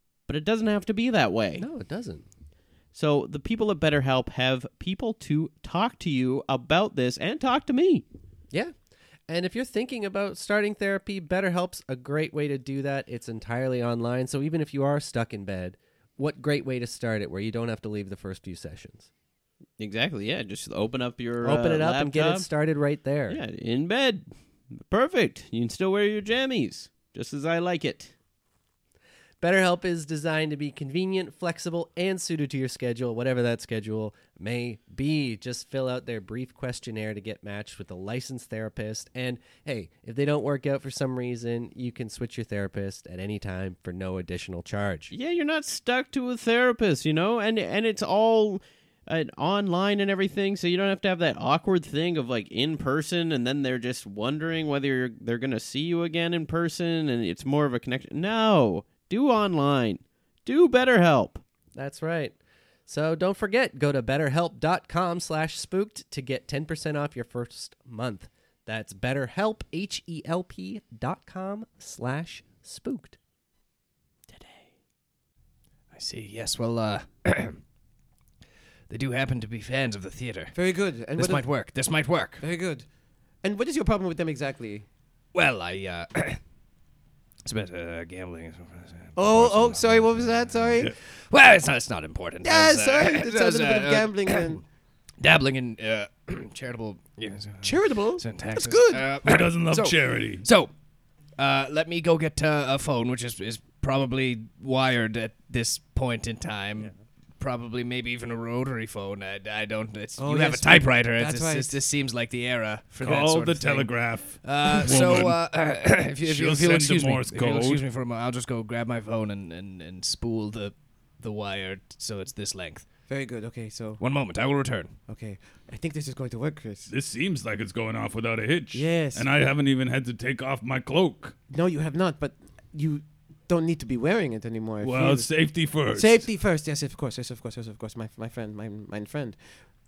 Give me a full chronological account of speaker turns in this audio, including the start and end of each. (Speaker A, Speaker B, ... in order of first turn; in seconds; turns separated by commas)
Speaker A: 0.3-1.6, Speaker B: 1.6-2.2, Speaker A: 2.9-8.0, Speaker B: 9.3-19.1, Speaker A: 19.8-22.5, Speaker B: 21.4-23.4, Speaker A: 23.3-28.1, Speaker B: 29.4-45.1, Speaker A: 45.1-61.4, Speaker B: 61.7-62.4, Speaker B: 62.9-73.2, Speaker C: 75.9-77.6, Speaker C: 78.9-80.5, Speaker D: 80.5-81.4, Speaker C: 81.2-82.4, Speaker D: 82.4-82.8, Speaker D: 83.4-84.8, Speaker C: 85.3-86.4, Speaker C: 87.4-94.6, Speaker D: 89.2-90.9, Speaker D: 92.4-94.6, Speaker C: 95.2-100.7, Speaker D: 97.6-99.1, Speaker E: 99.2-100.4, Speaker C: 101.4-122.8, Speaker D: 110.2-111.8, Speaker E: 113.0-115.4, Speaker E: 116.2-117.8, Speaker D: 123.1-124.0, Speaker C: 124.0-124.9, Speaker D: 125.1-126.9, Speaker E: 126.9-131.3, Speaker D: 128.7-129.3, Speaker D: 131.5-135.3, Speaker E: 134.8-136.2, Speaker D: 135.9-139.4